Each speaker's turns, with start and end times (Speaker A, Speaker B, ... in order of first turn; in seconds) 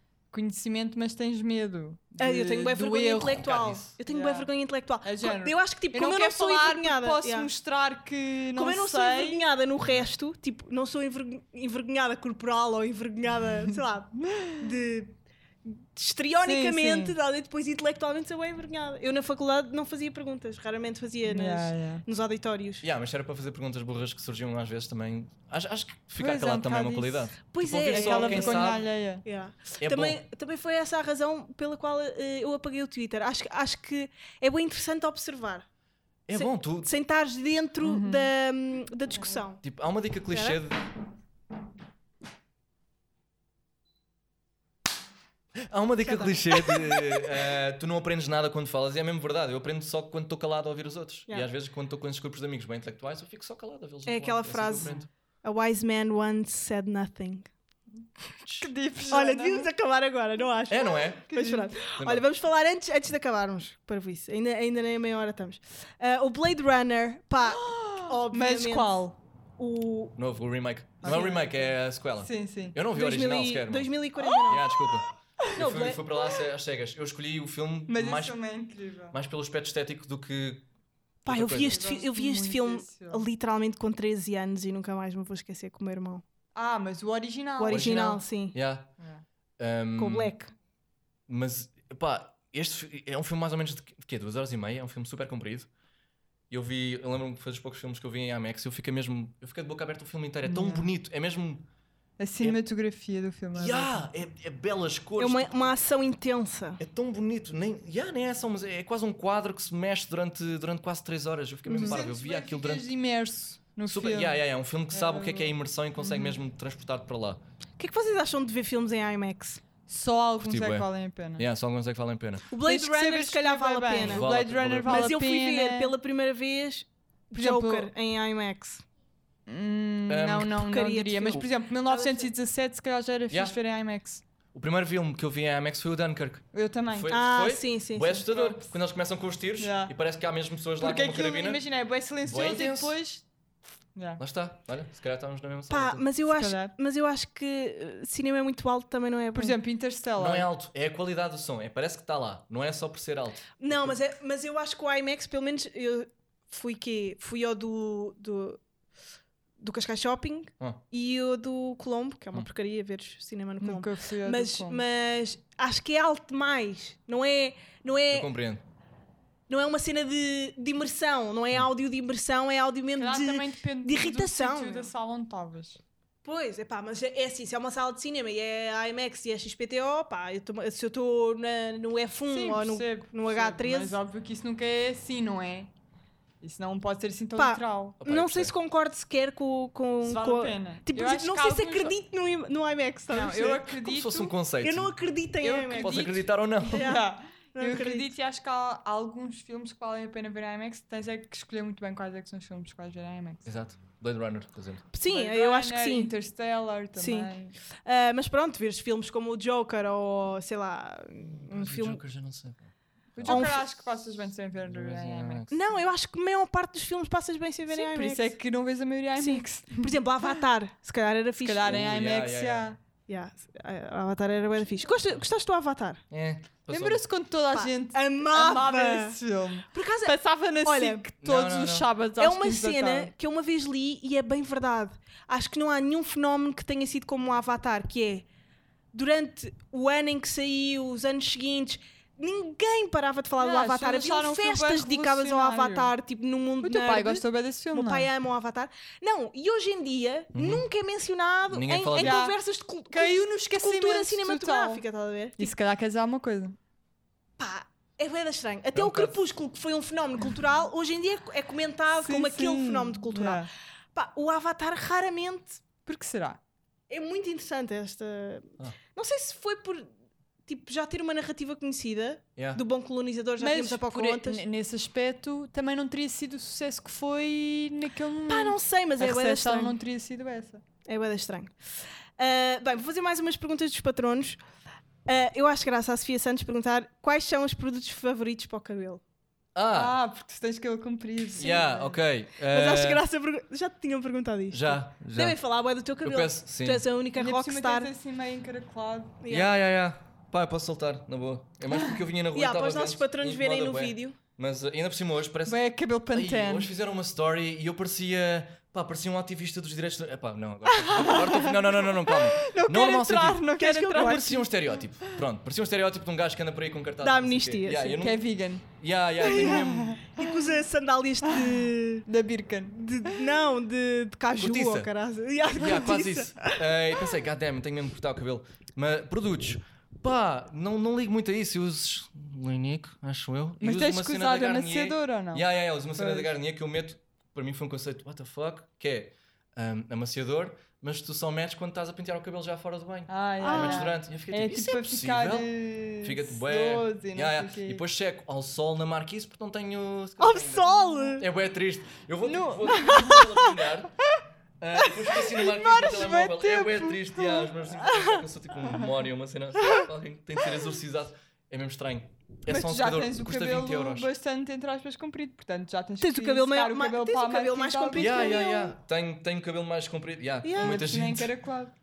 Speaker A: 0.3-3.4, 4.1-4.5, 5.0-9.4, 14.2-14.6, 16.4-17.1, 21.2-22.0, 26.2-27.3, 27.8-29.2, 37.8-38.3, 58.6-59.7, 61.3-61.7, 67.4-69.2, 71.0-72.8, 77.9-79.2, 81.6-83.3, 86.5-88.1, 100.4-100.9, 102.2-104.1, 111.7-116.3, 119.9-121.5, 122.6-125.9, 127.3-127.9, 129.5-134.2, 136.5-137.2, 138.3-138.6, 139.6-139.9, 140.8-143.2, 143.9-144.2, 146.2-146.7, 149.3-150.5, 163.6-164.8, 173.0-175.8, 182.3-185.7, 186.4-188.0, 190.0-191.9, 193.1-194.3, 195.4-203.5, 205.1-207.5, 213.2-215.5, 217.7-220.2, 221.4-222.8, 226.7-233.1, 243.4-245.9, 246.6-248.1, 251.9-252.4, 252.9-254.8, 255.4-256.6, 262.0-263.5, 265.9-266.4, 273.4-280.6, 289.7-292.0, 297.1-299.2, 305.4-306.7, 310.9-314.5, 318.0-318.6, 319.3-320.4, 321.2-323.3, 333.6-336.3, 343.1-347.8, 352.3-353.2, 355.5-357.5, 362.5-368.4, 370.6-371.7
Speaker B: 2.2-7.5, 8.6-22.8, 27.5-35.6, 36.3-39.6, 40.3-40.6, 46.0-47.1, 54.0-57.5, 59.1-69.0, 69.6-70.2, 71.0-71.3, 72.9-74.7, 75.5-76.0, 81.2-86.2, 87.6-88.5, 90.0-90.5, 105.2-106.8, 111.7-111.9, 117.8-119.6, 122.5-124.2, 124.8-128.8, 130.6-132.3, 137.1-138.4, 145.7-149.6, 153.6-158.6, 159.6-168.3, 169.5-174.9, 176.2-184.0, 187.3-193.6, 194.6-196.1, 196.7-198.1, 204.9-206.1, 206.9-212.0, 213.2-213.6, 215.5-218.3, 219.2-221.8, 223.1-226.0, 227.5-229.2, 229.7-231.0, 232.2-238.2, 238.9-255.5, 257.4-265.6, 266.9-269.9, 270.5-274.4, 278.3-279.7, 280.9-281.5, 282.2-284.4, 285.1-289.0, 292.5-297.9, 299.2-299.5, 302.3-304.2, 313.6-314.4, 317.0-318.1, 319.2-322.1, 322.8-326.6, 343.4-343.9, 350.2-351.2, 352.7-353.4, 354.8-355.9, 357.8-358.2, 366.0-368.7, 370.4-370.9
Speaker C: 3.4-3.9, 22.8-28.9, 29.8-30.2, 36.3-36.9, 39.6-40.8, 45.5-55.1, 58.4-58.7, 60.7-61.3, 61.9-62.2, 70.2-78.4, 79.1-80.7, 81.2-81.8, 87.7-88.9, 89.6-90.3, 91.3-95.7, 96.5-101.7, 103.5-105.7, 106.8-112.9, 113.8-117.4, 120.4-122.5, 124.0-125.1, 130.1-130.6, 133.3-133.6, 134.5-141.6, 142.2-142.9, 144.2-146.0, 150.2-154.0, 168.1-168.6, 188.0-188.5, 193.8-194.9, 195.7-196.9, 203.4-204.8, 211.4-213.6, 214.7-215.6, 221.6-222.7, 226.1-227.0, 231.2-231.9, 250.3-250.7, 251.5-252.2, 258.7-259.2, 272.4-272.6, 289.5-289.9, 291.4-293.0, 294.5-295.4, 296.0-296.8, 299.3-305.6, 306.1-320.0, 324.3-324.9, 325.5-353.9, 354.6-364.1, 367.9-371.3